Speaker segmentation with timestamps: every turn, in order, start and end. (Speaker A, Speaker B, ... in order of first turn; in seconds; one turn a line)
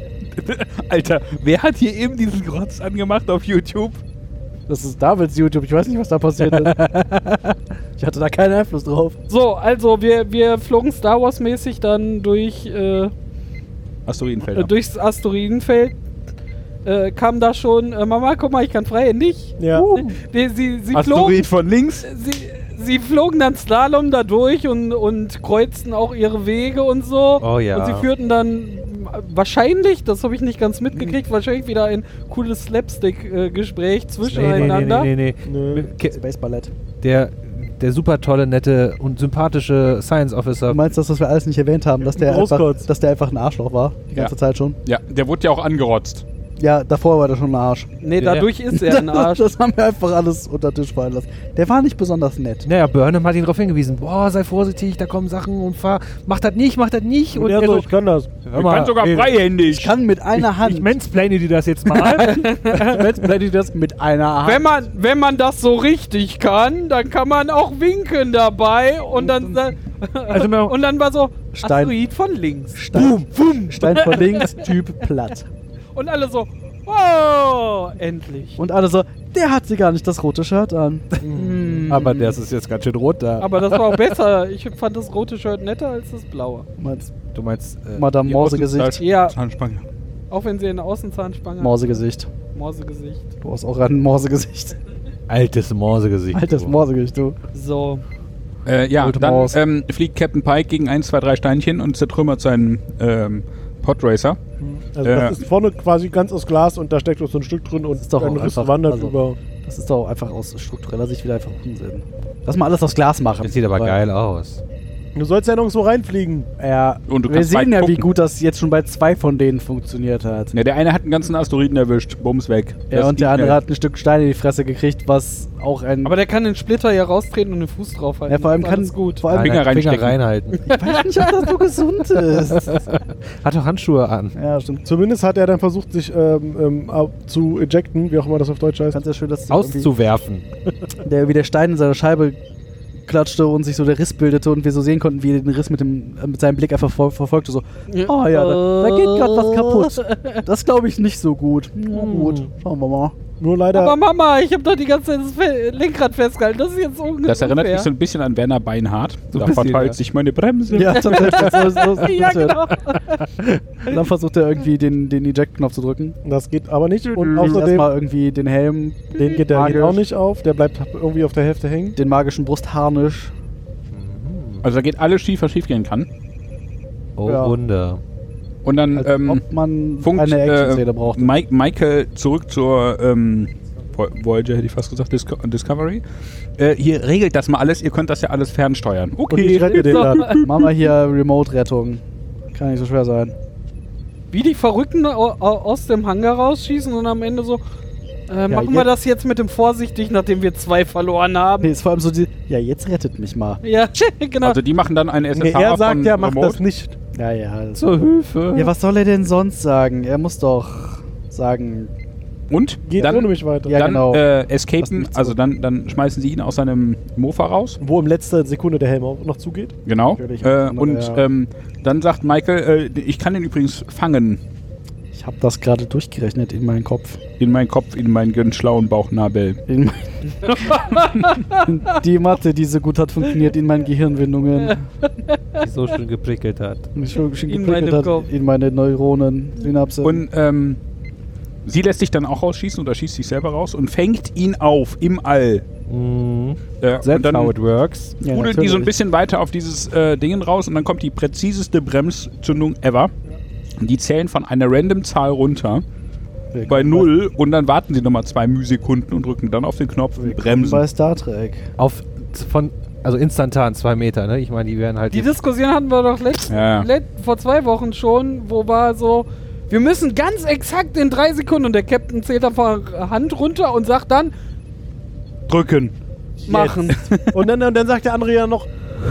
Speaker A: 0.4-4.0
Speaker B: 4.7-6.9
Speaker C: 6.5-7.4
Speaker B: 8.0-9.2
Speaker D: 9.3-13.1
Speaker A: 14.1-14.7
Speaker D: 14.4-15.9
Speaker D: 16.8-21.4
Speaker E: 19.6-19.9
Speaker A: 20.9-22.1
Speaker D: 22.0-35.1
Speaker C: 27.4-28.1
Speaker B: 34.3-35.0
Speaker C: 34.3-36.2
Speaker E: 35.5-35.9
Speaker B: 36.0-36.7
Speaker C: 37.0-40.8
Speaker B: 40.7-44.8
Speaker E: 42.1-42.9
Speaker A: 44.9-46.2
Speaker B: 46.6-47.9
Speaker D: 48.0-49.5
Speaker C: 48.2-48.5
Speaker B: 48.7-52.7
Speaker C: 52.6-57.9
Speaker E: 57.3-58.3
Speaker C: 58.5-59.4
Speaker A: 58.5-60.0
Speaker B: 59.6-60.9
Speaker C: 60.4-62.4
Speaker B: 61.9-64.7
Speaker D: 62.1-63.1
Speaker D: 64.4-74.7
Speaker B: 69.2-69.6
Speaker C: 70.3-70.8
Speaker B: 71.5-71.9
Speaker B: 72.7-75.5
Speaker D: 76.0-78.6
Speaker B: 78.6-82.4
Speaker E: 81.2-81.6
Speaker C: 81.5-84.0
Speaker D: 83.4-86.7
Speaker B: 86.8-87.1
Speaker C: 87.3-88.2
Speaker B: 88.0-89.0
Speaker A: 88.3-89.8
Speaker D: 89.0-89.4
Speaker D: 90.3-92.0
Speaker B: 91.6-92.3
Speaker D: 92.5-93.2
Speaker B: 93.4-94.8
Speaker C: 95.3-96.8
Speaker B: 96.3-97.4
Speaker D: 97.5-98.0
Speaker A: 98.7-104.4
Speaker B: 99.0-99.6
Speaker E: 104.6-109.4
Speaker A: 105.0-105.4
Speaker B: 108.0-114.0
Speaker C: 113.4-114.6
Speaker E: 115.1-116.5
Speaker B: 116.6-120.5
Speaker A: 117.1-118.0
Speaker A: 120.5-123.6
Speaker B: 122.9-126.1
Speaker D: 126.0-129.2
Speaker B: 128.3-129.9
Speaker C: 129.3-130.6
Speaker A: 129.3-130.2
Speaker B: 130.6-132.8
Speaker C: 132.4-134.3
Speaker B: 134.3-134.8
Speaker E: 134.8-139.0
Speaker B: 138.9-139.9
Speaker C: 139.5-140.4
Speaker B: 141.0-142.4
Speaker B: 143.1-153.1
Speaker D: 147.9-150.4
Speaker C: 151.9-152.5
Speaker E: 153.4-154.0
Speaker D: 153.7-157.9
Speaker A: 157.2-161.5
Speaker B: 159.3-159.9
Speaker C: 159.4-159.9
Speaker B: 160.7-162.6
Speaker D: 160.9-163.3
Speaker B: 163.4-166.2
Speaker E: 166.2-167.9
Speaker B: 167.2-170.0
Speaker E: 169.2-172.0
Speaker B: 171.9-173.3
Speaker C: 173.9-174.6
Speaker A: 174.6-176.1
Speaker C: 177.2-178.0
Speaker B: 177.3-177.6
Speaker A: 178.6-179.4
Speaker B: 178.9-181.3
Speaker A: 180.0-186.0
Speaker A: 186.6-190.4
Speaker E: 189.3-190.3
Speaker D: 189.7-190.7
Speaker B: 190.4-193.3
Speaker D: 194.3-197.6
Speaker D: 198.3-201.7
Speaker B: 198.5-198.9
Speaker B: 201.6-203.6
Speaker D: 203.6-204.6
Speaker A: 204.4-206.6
Speaker E: 205.3-206.9
Speaker B: 207.1-211.9
Speaker C: 207.8-208.7
Speaker A: 212.5-217.8
Speaker E: 212.9-213.8
Speaker B: 213.7-214.2
Speaker B: 214.8-215.4
Speaker E: 217.8-219.8
Speaker A: 219.9-224.4
Speaker B: 220.1-221.2
Speaker B: 225.1-227.2
Speaker A: 227.4-229.6
Speaker B: 229.7-234.8
Speaker D: 230.4-231.8
Speaker D: 235.3-235.6
Speaker C: 235.6-236.9
Speaker B: 236.9-240.2
Speaker D: 237.5-238.3
Speaker A: 240.0-240.8
Speaker A: 241.6-245.7
Speaker C: 245.9-248.2
Speaker A: 246.8-247.6
Speaker A: 248.2-253.1
Speaker B: 248.2-248.9
Speaker A: 253.8-255.8
Speaker B: 256.5-257.1
Speaker A: 256.7-260.9
Speaker B: 260.2-261.7
Speaker C: 261.8-265.3
Speaker D: 265.1-274.3
Speaker A: 266.5-266.9
Speaker A: 275.5-275.9
Speaker E: 276.4-276.8
Speaker D: 276.5-277.0
Speaker A: 276.9-277.4
Speaker E: 277.3-278.7